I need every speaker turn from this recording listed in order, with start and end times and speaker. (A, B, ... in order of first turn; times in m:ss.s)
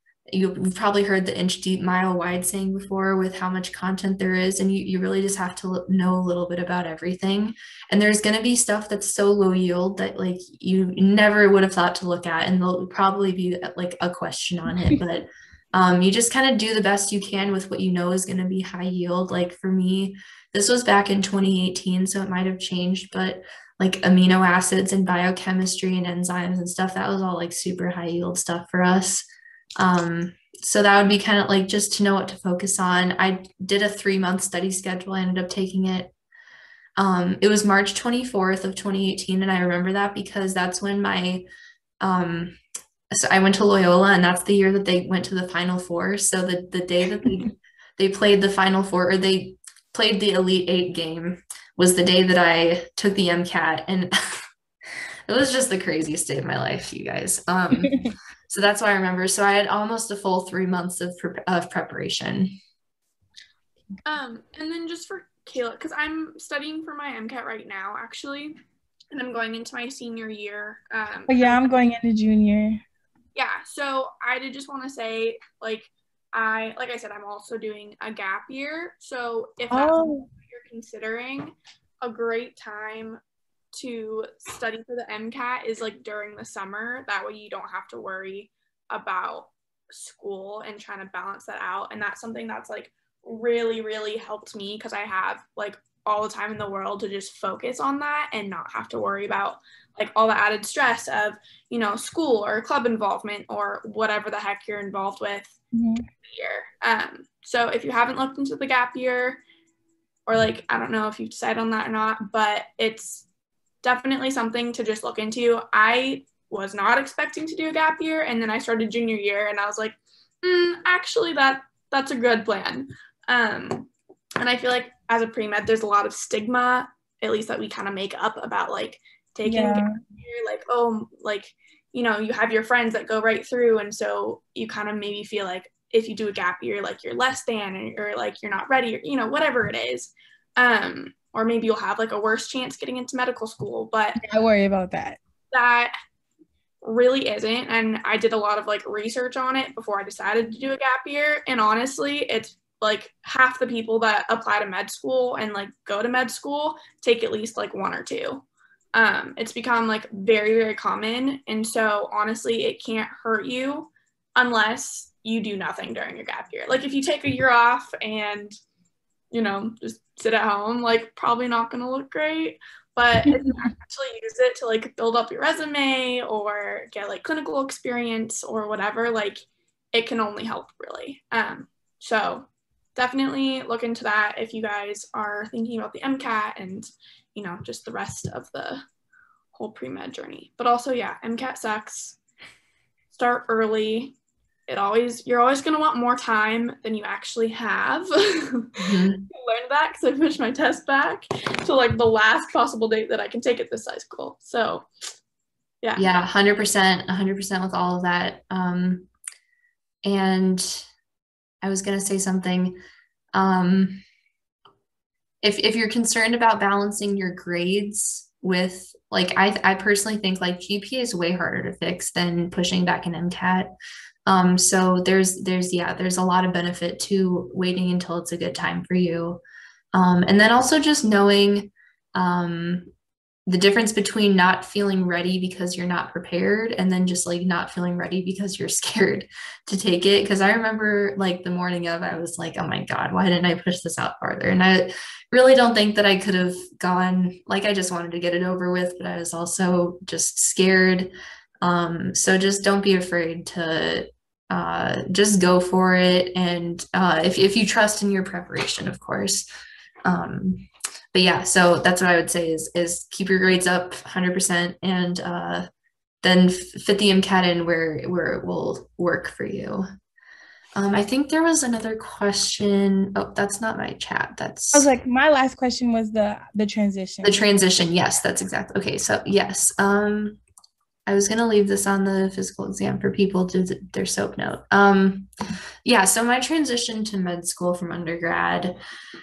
0:00.3-0:29.2 A
0:29.8-0:36.1 A
0:37.0-0:41.4 A
0:42.0-0:42.6 A
0:43.1-0:54.4 A
0:55.3-1:02.6 A
1:04.0-1:08.6 B
1:09.1-1:11.7 B
1:11.3-1:12.8 C
1:13.4-1:23.2 B
1:19.7-1:20.3 C
1:23.7-1:45.6 B
1:45.7-1:46.1 C
1:46.2-1:49.4 B
1:50.3-1:53.2 B
1:53.8-2:24.2 B
2:09.4-2:10.0 C
2:24.2-2:25.2 C
2:25.5-2:25.9 B
2:26.8-2:48.6 B
2:49.3-3:08.8 B
3:09.5-3:12.2 B
3:13.1-3:14.1 B
3:14.7-3:24.9 B
3:18.8-3:19.3 A
3:25.8-3:26.1 B
3:26.0-3:29.1 A
3:30.0-3:30.9 A
3:31.6-3:32.8 A
3:33.3-3:34.0 A
3:35.4-3:43.7 A
3:44.3-3:49.4 A
3:49.9-3:52.9 A
3:53.5-4:11.1 A
4:11.6-4:19.5 A
4:20.0-4:25.7 A
4:26.2-4:29.8 A
4:30.8-4:34.9 A
4:34.7-4:37.4 C
4:37.2-4:40.4 A
4:41.1-4:45.3 A
4:45.8-4:48.8 A